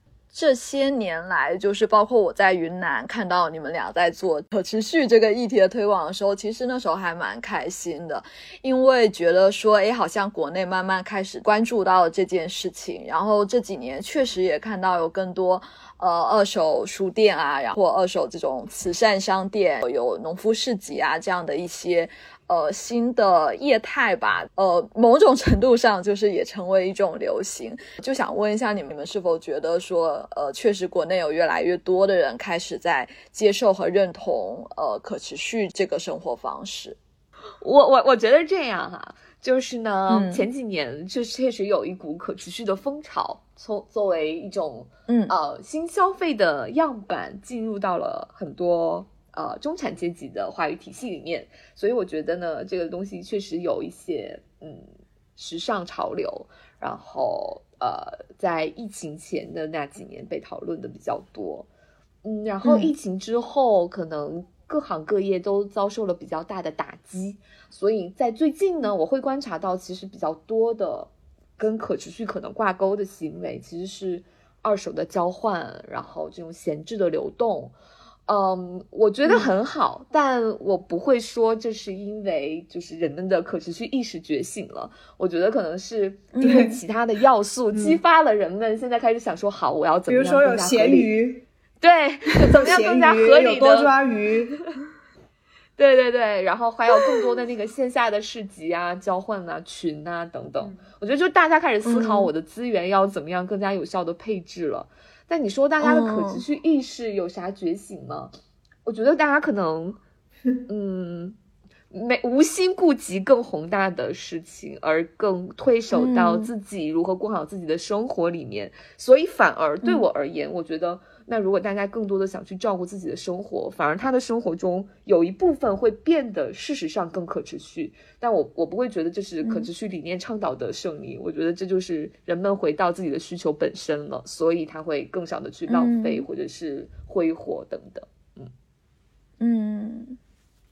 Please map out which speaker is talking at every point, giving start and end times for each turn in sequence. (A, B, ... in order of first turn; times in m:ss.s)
0:00.3-0:37.0 A
0:37.6-1:01.7 B
0:40.1-0:40.4 A
0:45.1-0:45.4 A
1:02.2-1:17.7 B
1:02.6-1:02.9 A
1:18.3-1:31.1 B
1:26.4-1:26.6 A
1:26.4-1:26.7 C
1:27.7-1:28.0 C
1:30.1-1:31.5 C
1:31.8-1:34.0 B
1:32.4-1:34.6 C
1:35.8-1:48.3 B
1:41.8-1:42.3 A
1:45.8-1:46.4 A
1:48.8-1:50.0 B
1:50.7-1:51.4 B
1:51.9-2:18.5 B
1:55.9-1:56.5 A
2:09.4-2:09.7 A
2:15.7-2:16.2 A
2:19.4-2:20.2 A